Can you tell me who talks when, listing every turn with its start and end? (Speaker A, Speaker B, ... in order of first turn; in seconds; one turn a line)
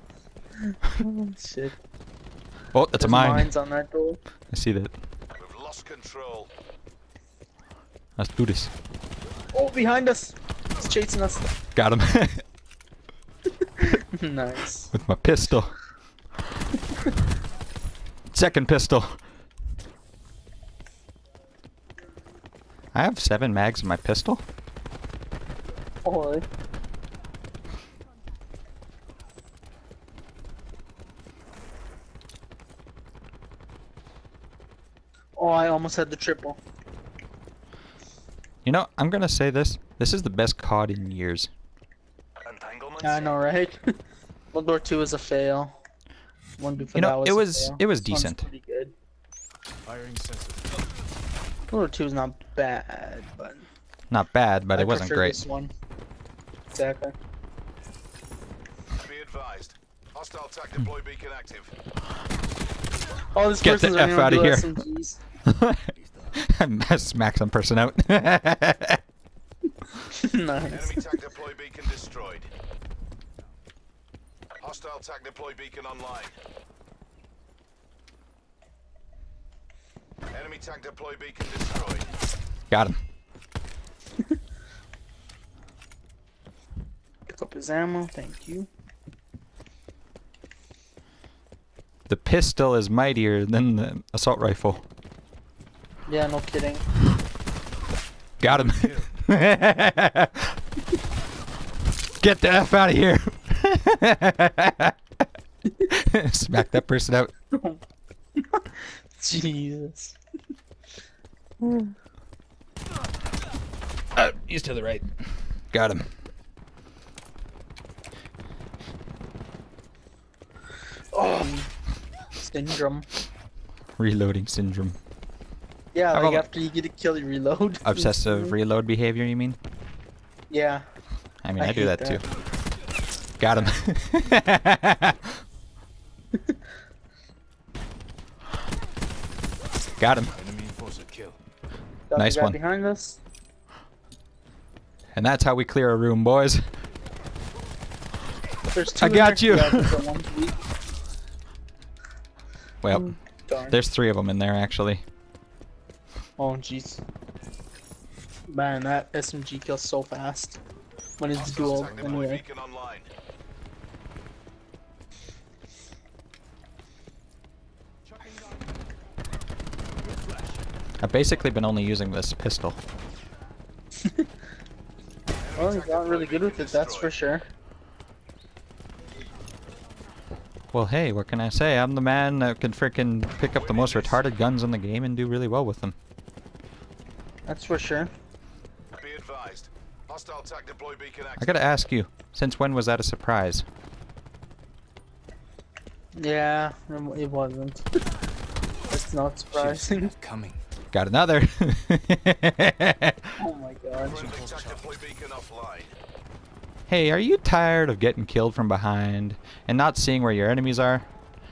Speaker A: 0.7-1.8
Speaker B: 2.7-3.5
Speaker A: 3.0-4.2
Speaker B: 4.5-4.9
Speaker C: 5.4-6.5
Speaker B: 8.2-8.7
Speaker A: 9.5-11.5
Speaker B: 11.8-12.4
Speaker A: 13.8-14.9
Speaker B: 14.9-15.8
Speaker B: 18.3-19.2
Speaker B: 22.9-24.4
Speaker A: 26.0-26.4
Speaker A: 35.4-36.6
Speaker B: 38.6-41.5
Speaker C: 42.4-43.3
Speaker A: 43.0-43.8
Speaker A: 44.5-45.8
Speaker A: 46.6-48.9
Speaker B: 47.0-48.5
Speaker D: 49.9-50.7
Speaker A: 51.7-53.7
Speaker B: 54.1-55.4
Speaker A: 54.7-55.7
Speaker A: 56.7-57.1
Speaker C: 58.9-61.7
Speaker A: 63.3-65.2
Speaker B: 63.6-64.8
Speaker B: 65.5-69.0
Speaker D: 66.0-66.3
Speaker A: 70.0-71.0
Speaker C: 70.7-72.5
Speaker C: 74.6-76.4
Speaker C: 80.3-82.1
Speaker B: 82.7-83.0
Speaker A: 87.3-88.7
Speaker B: 92.1-94.8
Speaker A: 96.1-96.8
Speaker B: 98.4-100.6
Speaker D: 98.4-99.1
Speaker B: 102.2-105.0
Speaker B: 105.9-107.3
Speaker A: 107.5-107.8
Speaker A: 108.4-110.2
Speaker A: 111.6-112.0
Speaker B: 114.2-115.1
Speaker B: 115.7-116.1
Speaker A: 121.1-121.7
Speaker A: 122.4-123.1
Speaker B: 124.0-125.0
Speaker A: 125.9-128.6
Speaker B: 126.1-126.5
Speaker B: 127.8-129.6
Speaker A: 130.5-130.9
Speaker B: 131.4-132.2
Speaker A: 131.6-132.2
Speaker B: 133.4-135.4
Speaker D: 133.5-133.8
Speaker B: 140.0-140.3
Speaker D: 140.3-141.4
Speaker A: 142.1-143.2
Speaker B: 142.2-142.6
Speaker B: 145.1-146.6
Speaker A: 148.7-150.6
Speaker B: 149.0-150.0
Speaker B: 152.8-153.2
Speaker A: 153.0-153.8
Speaker B: 153.7-155.0
Speaker A: 156.4-157.0
Speaker A: 158.5-160.6
Speaker A: 161.2-162.4
Speaker C: 161.3-163.1
Speaker D: 161.4-162.2
Speaker B: 171.0-172.8
Speaker C: 175.4-177.1
Speaker A: 175.6-177.5
Speaker B: 180.7-186.0
Speaker C: 183.5-184.2
Speaker A: 187.5-188.1
Speaker C: 189.0-191.8
Speaker B: 191.4-193.7
Speaker A: 196.2-197.9
Speaker A: 198.9-200.1
Speaker D: 199.5-200.6
Speaker B: 200.9-203.3
Speaker A: 203.4-204.2
Speaker C: 204.0-205.9
Speaker D: 204.1-205.0
Speaker B: 206.9-211.1